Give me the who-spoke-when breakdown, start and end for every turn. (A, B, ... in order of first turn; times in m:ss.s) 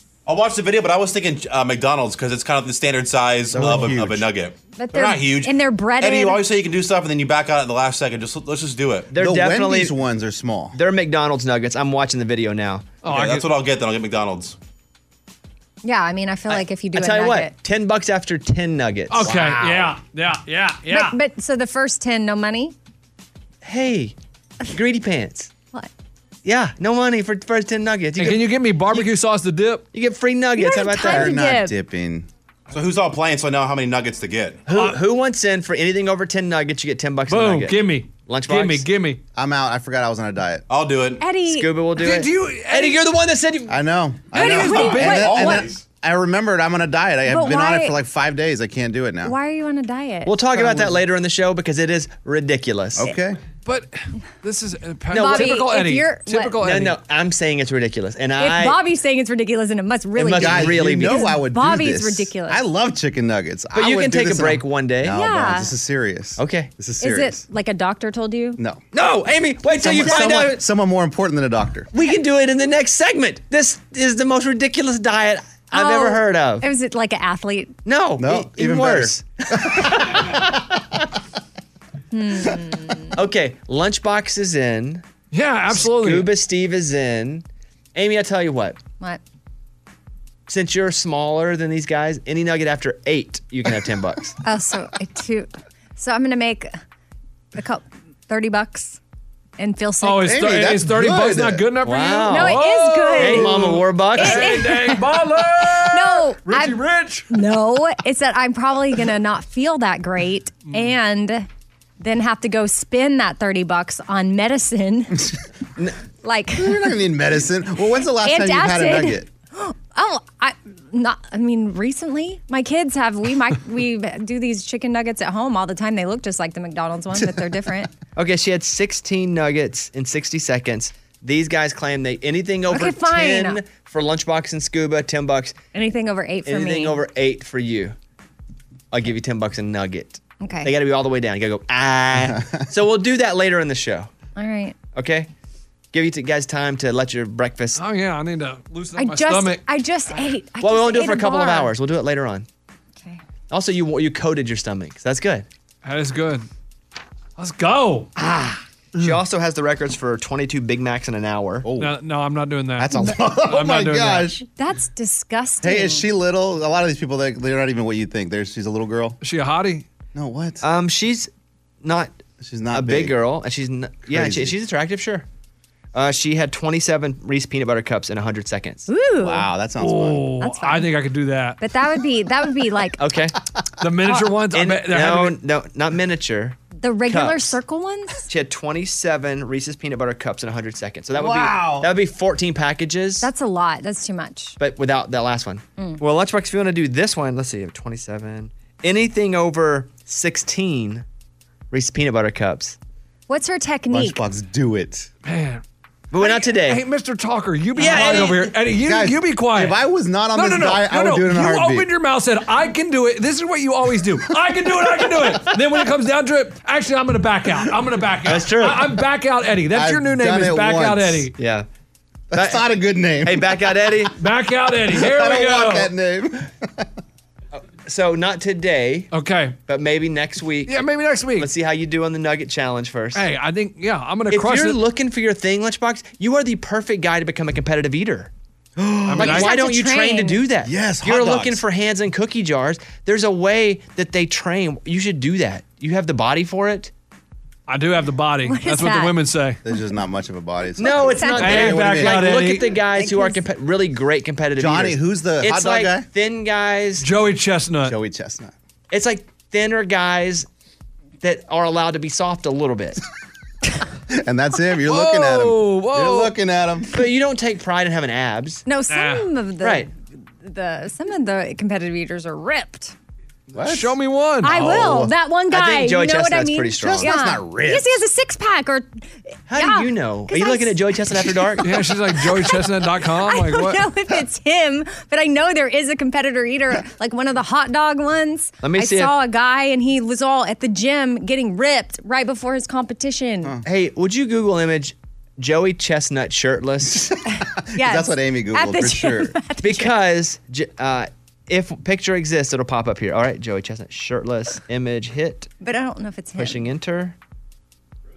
0:00.3-0:09.1 A
0:03.5-0:04.3 B
0:04.8-0:06.4 C
0:09.1-0:10.0 D
0:09.2-0:10.8 B
0:10.7-0:12.9 D
0:13.0-0:13.5 E
0:13.0-0:14.6 A
0:15.8-0:17.5 C
0:16.5-0:19.3 D
0:19.1-0:21.2 E
0:19.2-0:20.0 B
0:20.9-0:22.8 C
0:23.6-0:24.2 D
0:24.7-0:25.5 D
0:26.4-0:29.1 D
0:28.2-0:29.8 E
0:29.9-0:31.3 D
0:30.6-0:31.8 C
0:31.0-0:32.3 B
0:32.7-0:34.7 A
0:34.7-0:38.9 D
0:34.7-0:35.0 E
0:37.3-0:39.2 E
0:39.4-0:40.6 B
0:40.7-0:41.2 A
0:41.2-0:41.7 C
0:41.5-0:43.8 D
0:42.0-0:43.0 E
0:43.7-0:49.4 B
0:44.3-0:45.6 E
0:44.4-0:45.6 C
0:45.1-0:45.8 A
0:47.3-0:48.0 C
0:49.2-0:50.4 C
0:50.3-0:53.1 D
0:50.6-0:51.0 E
0:53.0-0:53.4 B
0:53.6-0:57.0 E
0:55.1-0:55.6 D
0:55.1-0:56.6 C
0:56.6-0:58.8 D
0:58.4-1:02.6 C
1:00.2-1:01.3 D
1:00.4-1:07.4 B
1:03.7-1:05.2 D
1:05.1-1:05.7 C
1:06.4-1:06.7 D
1:07.0-1:08.6 C
1:08.9-1:10.6 D
1:09.8-1:11.9 B
1:11.9-1:16.7 D
1:15.7-1:17.8 C
1:17.9-1:19.8 D
1:18.2-1:20.4 B
1:22.1-1:23.2 C
1:23.1-1:25.0 D
1:25.3-1:26.3 E
1:25.7-1:28.8 D
1:30.5-1:34.4 D
1:34.4-1:36.8 C
1:37.6-1:39.0 C
1:39.6-1:40.6 C
1:40.0-1:47.3 E
1:40.2-1:41.6 B
1:41.8-1:44.7 D
1:42.3-1:45.0 C
1:45.8-1:51.5 C
1:52.0-1:55.3 C
1:56.2-1:56.9 C
1:56.6-1:59.3 B
1:58.2-2:07.9 C
2:07.1-2:07.5 B
2:08.2-2:15.6 D
2:12.7-2:13.6 C
2:15.7-2:17.0 C
2:16.5-2:18.0 D
2:18.9-2:24.1 D
2:20.4-2:20.7 C
2:22.2-2:22.6 B
2:24.4-2:24.8 C
2:25.0-2:25.3 D
2:25.9-2:27.8 D
2:27.8-2:29.6 E
2:29.0-2:31.7 C
2:30.6-2:32.5 D
2:33.5-2:35.5 D
2:35.8-2:36.5 E
2:37.4-2:38.1 E
2:38.2-2:41.7 D
2:41.6-2:42.0 B
2:41.7-2:44.3 E
2:42.8-2:44.4 B
2:44.6-2:46.1 C
2:45.6-2:49.2 B
2:49.2-2:49.9 E
2:50.2-2:50.6 B
2:50.6-2:51.3 D
2:51.8-2:52.2 D
2:52.4-2:53.2 B
2:52.7-2:55.3 D
2:54.1-2:54.6 B
2:55.9-2:58.9 D
2:58.9-2:59.5 C
2:59.2-3:00.3 B
2:59.8-3:01.6 E
3:00.4-3:00.9 C
3:01.6-3:03.0 C
3:03.0-3:03.4 D
3:03.8-3:05.4 E
3:04.5-3:07.6 D
3:06.8-3:08.3 C
3:08.3-3:13.3 D
3:11.1-3:11.9 B
3:13.2-3:14.6 C
3:14.6-3:21.0 D
3:21.7-3:22.8 D
3:23.3-3:24.2 C
3:23.9-3:25.1 B
3:25.2-3:25.6 E
3:26.1-3:26.8 D
3:26.2-3:29.8 E
3:27.8-3:28.5 D
3:27.8-3:31.9 B
3:30.3-3:41.3 E
3:38.2-3:39.0 D
3:39.7-3:41.3 B
3:41.4-3:41.7 D
3:42.3-3:43.9 B
3:42.3-3:42.7 D
3:43.2-3:44.1 D
3:44.2-3:45.9 E
3:44.9-3:46.9 B
3:47.5-3:49.1 D
3:49.1-3:49.6 E
3:49.7-3:53.3 D
3:50.7-3:51.5 E
3:53.1-3:54.8 E
3:54.3-3:58.3 D
3:58.8-3:59.4 B
3:59.1-3:59.5 E
3:59.2-4:06.9 D
3:59.2-4:00.4 C
4:00.6-4:01.6 B
4:07.7-4:09.6 E
4:08.4-4:09.2 C
4:09.6-4:12.3 B
4:10.8-4:17.1 D
4:10.9-4:11.7 C
4:11.4-4:12.7 E
4:12.4-4:13.4 C
4:14.6-4:16.1 B
4:17.0-4:18.0 E
4:17.8-4:18.5 B
4:18.9-4:20.5 D
4:21.2-4:23.0 D
4:24.1-4:27.0 B
4:24.8-4:26.4 E
4:26.9-4:28.7 D
4:28.7-4:32.9 C
4:28.9-4:29.3 E
4:29.6-4:29.9 D
4:33.5-4:35.1 B
4:33.6-4:34.7 E
4:34.4-4:40.8 C
4:35.5-4:37.1 D
4:36.8-4:38.0 B
4:39.5-4:41.8 D
4:41.6-4:43.8 E
4:42.3-4:42.6 C
4:43.2-4:53.6 C
4:48.6-4:49.1 D
4:53.6-4:57.1 D
4:57.1-4:59.4 B
4:57.3-4:59.9 C
4:59.6-5:05.5 D
5:05.6-5:06.6 C
5:06.4-5:07.2 D